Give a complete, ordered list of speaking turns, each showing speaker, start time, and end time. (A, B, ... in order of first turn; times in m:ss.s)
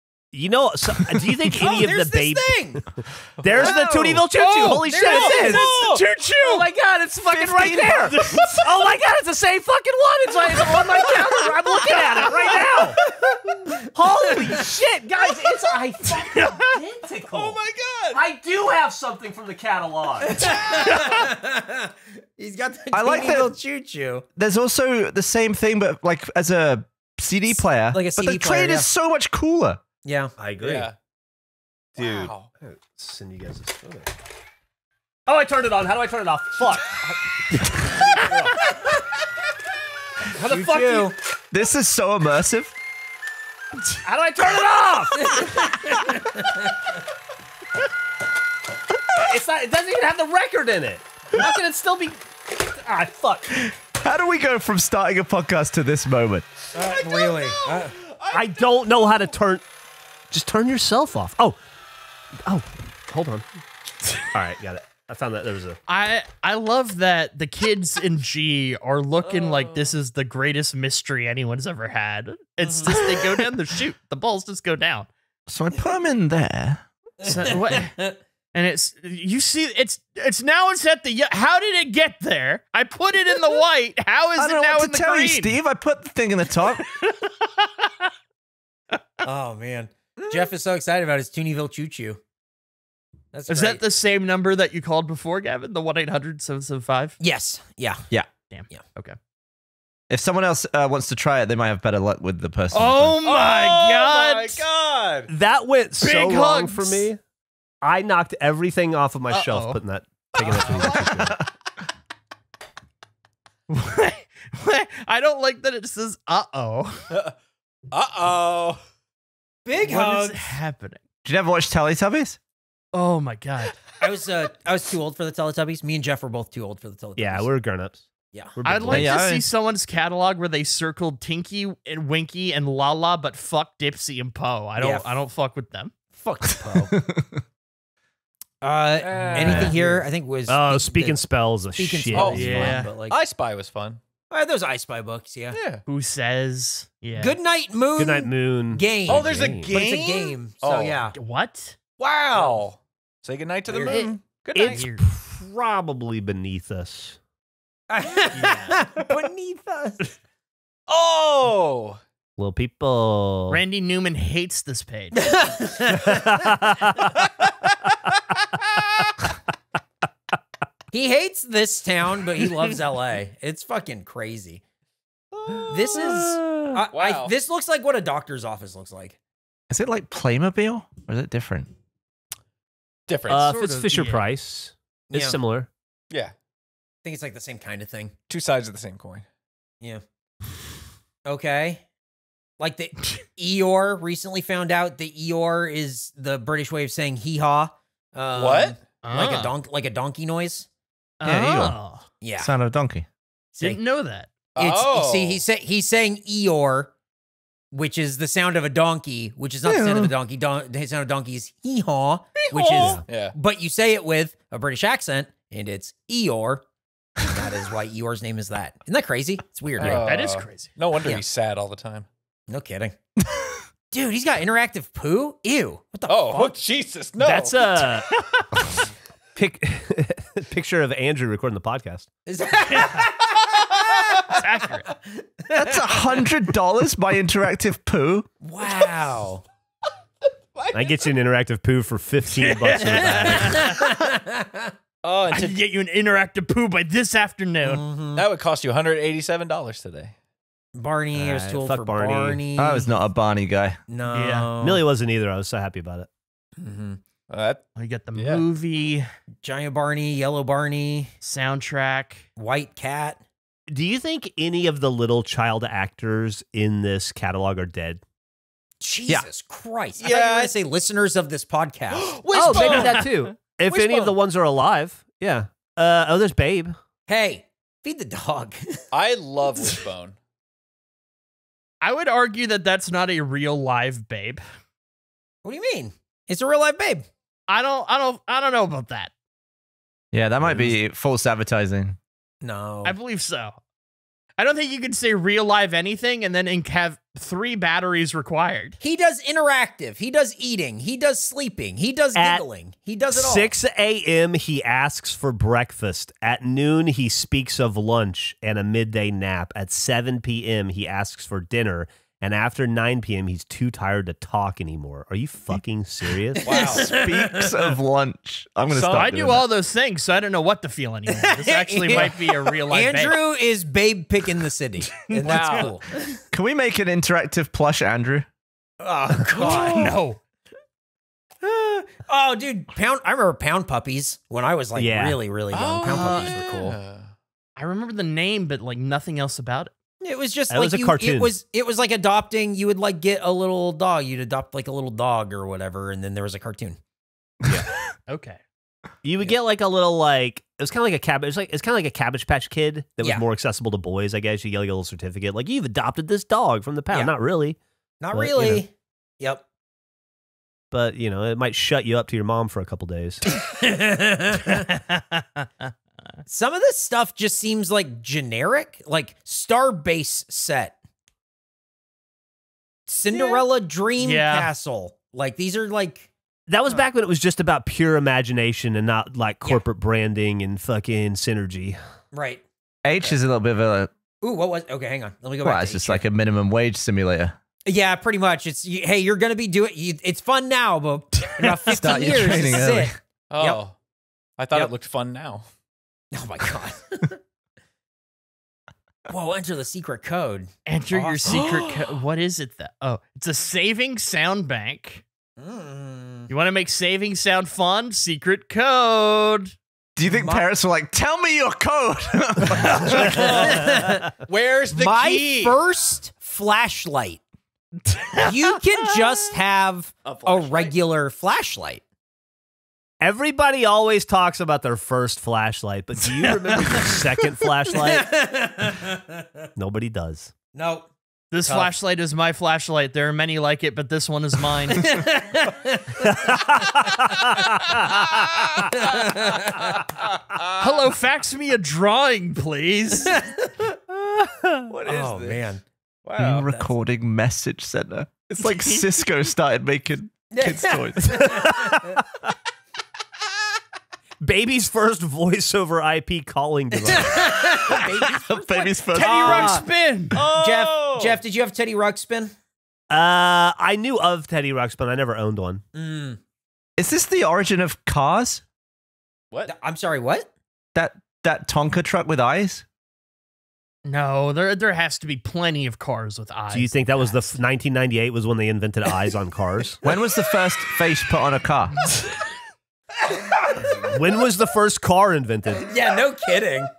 0:00.3-0:13.0 A
0:01.4-0:02.8 B
0:03.4-0:06.1 C
0:03.5-0:04.0 B
0:04.8-0:05.6 B
0:04.9-0:06.7 D
0:07.3-0:08.4 E
0:08.1-0:08.6 D
0:11.8-0:12.8 C
0:13.9-0:17.4 A
0:14.3-0:14.6 B
0:16.3-0:16.7 D
0:17.3-0:18.2 C
0:18.1-0:21.0 A
0:20.2-0:24.2 B
0:20.4-0:21.1 C
0:22.9-0:23.6 E
0:24.4-0:29.8 E
0:27.5-0:28.9 B
0:30.0-0:30.3 B
0:30.4-0:30.9 A
0:30.6-0:30.9 C
0:32.0-0:34.1 A
0:32.0-0:32.5 C
0:35.3-0:38.4 A
0:38.2-0:38.5 C
0:40.2-0:41.2 B
0:40.4-0:41.1 A
0:41.5-0:42.7 E
0:44.0-0:46.2 A
0:45.2-0:46.4 B
0:49.1-0:53.7 A
0:53.5-0:56.4 E
0:56.7-0:58.0 B
0:56.9-0:58.4 C
0:58.3-0:59.6 A
1:00.3-1:01.6 A
1:02.4-1:03.5 A
1:04.3-1:05.8 A
1:05.9-1:15.1 D
1:09.2-1:10.0 C
1:12.6-1:13.0 B
1:15.5-1:16.8 E
1:17.2-1:17.9 D
1:17.3-1:18.2 B
1:18.5-1:25.6 D
1:24.4-1:26.9 E
1:26.9-1:27.3 D
1:29.2-1:32.2 B
1:33.3-1:33.8 B
1:33.5-1:37.2 D
1:37.2-1:38.0 B
1:38.5-1:39.2 D
1:40.1-1:43.2 E
1:42.7-1:44.6 D
1:43.2-1:45.3 C
1:45.3-1:47.2 A
1:46.0-1:47.0 D
1:47.8-1:51.4 A
1:49.3-1:49.8 D
1:50.4-1:51.1 C
1:50.4-1:50.8 D
1:51.0-1:51.4 E
1:53.7-1:57.1 D
1:57.1-1:57.3 C
1:57.9-1:58.8 C
1:59.6-2:00.6 B
1:59.8-2:01.0 D
2:01.2-2:02.4 E
2:02.9-2:03.7 D
2:04.0-2:07.5 B
2:07.2-2:09.2 A
2:08.6-2:15.9 D
2:08.9-2:09.4 E
2:14.8-2:15.1 B
2:16.1-2:17.0 B
2:16.9-2:17.4 E
2:18.6-2:21.2 B
2:19.0-2:20.0 C
2:19.5-2:19.7 D
2:19.5-2:19.7 E
2:20.5-2:22.8 A
2:21.8-2:23.2 B
2:22.1-2:24.0 C
2:22.2-2:22.9 D
2:24.3-2:25.6 B
2:25.5-2:25.8 C
2:25.8-2:27.4 D
2:27.2-2:31.1 B
2:28.0-2:29.7 A
2:29.1-2:31.0 C
2:31.1-2:31.8 D
2:32.0-2:34.8 C
2:33.7-2:34.1 B
2:33.9-2:37.2 A
2:34.6-2:35.0 D
2:37.9-2:40.1 B
2:38.3-2:38.8 D
2:40.9-2:42.0 C
2:42.4-2:43.6 A
2:43.5-2:45.2 D
2:45.2-2:46.8 B
2:46.0-2:47.0 A
2:50.9-2:54.6 B
2:55.3-2:55.7 C
2:55.7-2:59.2 B
2:55.9-2:56.8 A
2:56.9-2:57.3 C
2:59.7-3:01.7 E
3:03.1-3:03.6 C
3:03.3-3:05.7 A
3:03.4-3:04.2 D
3:05.1-3:05.4 B
3:07.0-3:08.1 B
3:08.3-3:09.2 C
3:11.2-3:11.8 B
3:12.6-3:20.7 B
3:18.3-3:18.8 C
3:19.0-3:19.5 D
3:21.2-3:22.0 D
3:21.2-3:21.8 E
3:22.2-3:22.5 B
3:22.4-3:23.0 E
3:23.5-3:23.8 B
3:23.6-3:24.3 D
3:24.5-3:25.4 C
3:24.6-3:26.9 B
3:27.7-3:36.6 B
3:29.6-3:30.1 E
3:32.5-3:33.3 C
3:32.6-3:33.0 D
3:37.2-3:40.0 B
3:39.8-3:42.1 C
3:39.8-3:40.7 D
3:42.5-3:43.0 B
3:43.9-3:46.6 B
3:46.1-3:48.0 C
3:47.2-3:48.1 A
3:49.3-3:52.1 A
3:52.2-3:54.2 B
3:52.7-3:53.0 D
3:54.3-3:54.9 D
3:55.4-3:56.0 B
3:55.5-3:58.3 E
3:58.4-3:59.4 B
4:00.5-4:00.9 C
4:00.7-4:03.7 A
4:02.4-4:03.8 D
4:02.9-4:04.7 B
4:05.0-4:05.6 C
4:05.3-4:07.8 D
4:07.6-4:08.2 B
4:08.1-4:10.1 C
4:10.8-4:12.9 B
4:11.1-4:12.4 A
4:12.6-4:13.8 E
4:13.9-4:14.8 B
4:14.1-4:14.5 D
4:14.6-4:16.1 A
4:16.6-4:17.0 B
4:17.3-4:17.6 C
4:17.7-4:19.0 D
4:18.1-4:18.4 C
4:19.4-4:21.1 B
4:21.2-4:22.2 D
4:22.4-4:23.2 B
4:23.7-4:28.0 A
4:28.8-4:33.0 B
4:30.0-4:30.5 C
4:31.9-4:33.1 C
4:32.3-4:36.8 A
4:33.7-4:34.1 B
4:37.1-4:38.8 B
4:38.9-4:40.2 C
4:41.8-4:44.4 D
4:45.4-4:47.1 B
4:47.5-4:49.1 D
4:50.1-4:52.0 E
4:52.4-4:53.0 B
4:52.8-4:53.6 D
4:54.4-4:58.8 D
4:58.8-5:03.5 B
5:02.1-5:02.4 A
5:03.1-5:16.5 A
5:16.4-5:17.5 B
5:16.4-5:16.9 C
5:16.7-5:19.4 E
5:18.7-5:19.1 C
5:18.9-5:23.2 D
5:21.1-5:25.9 B
5:25.0-5:25.7 C
5:25.1-5:25.7 D
5:26.3-5:28.3 E
5:28.8-5:29.9 B
5:29.2-5:30.2 D
5:31.4-5:36.8 B
5:34.7-5:35.2 A
5:35.5-5:37.1 C
5:35.8-5:36.4 D
5:37.6-5:39.7 D
5:40.0-5:46.8 B
5:40.5-5:41.3 A
5:48.1-5:48.4 D
5:49.0-5:57.6 A
5:58.0-5:59.4 B
5:58.1-5:58.6 A
6:00.7-6:03.2 A
6:03.3-6:04.6 B
6:04.5-6:05.7 D
6:06.2-6:10.8 B
6:12.9-6:16.1 B
6:14.0-6:14.5 D
6:16.5-6:21.8 A
6:22.1-6:22.4 B
6:22.8-6:23.9 E
6:24.2-6:26.0 B
6:25.4-6:27.4 E
6:27.6-6:33.6 B
6:31.6-6:33.0 E
6:33.3-6:33.8 C
6:34.4-6:35.5 C
6:36.1-6:37.2 B
6:39.1-6:41.4 B
6:40.6-6:45.0 D
6:41.3-6:41.8 C
6:45.4-6:46.3 B
6:46.3-6:49.5 D
6:50.0-6:53.4 E
6:50.1-6:50.5 B
6:52.6-6:53.1 D
6:52.8-6:54.2 B
6:52.8-6:55.6 C
6:54.7-6:57.2 B
6:57.8-6:58.6 D
6:58.2-7:01.8 B
7:00.0-7:00.7 C
7:03.0-7:08.1 A
7:06.5-7:06.9 D
7:07.7-7:09.5 B
7:09.6-7:10.3 A
7:10.5-7:10.9 B
7:11.3-7:15.0 D
7:11.4-7:11.7 B
7:14.7-7:17.1 B
7:16.1-7:18.4 A
7:18.5-7:19.9 B
7:20.3-7:20.9 C
7:20.6-7:23.2 D
7:23.0-7:23.8 B
7:23.9-7:24.7 A
7:24.8-7:25.6 B
7:24.8-7:25.2 C
7:24.8-7:25.3 E
7:26.0-7:26.5 C
7:26.2-7:31.3 E
7:26.4-7:26.7 B
7:30.3-7:32.0 B
7:31.0-7:32.0 A
7:34.2-7:37.6 A
7:36.8-7:39.6 B
7:37.5-7:39.6 E
7:38.9-7:40.2 D
7:40.1-7:41.2 C
7:40.3-7:42.3 B
7:42.9-7:45.6 A
7:45.7-7:46.2 B
7:46.8-7:48.4 E
7:49.4-7:50.3 B
7:50.7-7:52.6 E
7:53.8-7:57.3 D
7:56.5-7:59.8 A
7:59.8-8:01.9 E
8:03.1-8:03.8 B
8:03.7-8:05.7 A
8:05.6-8:06.7 B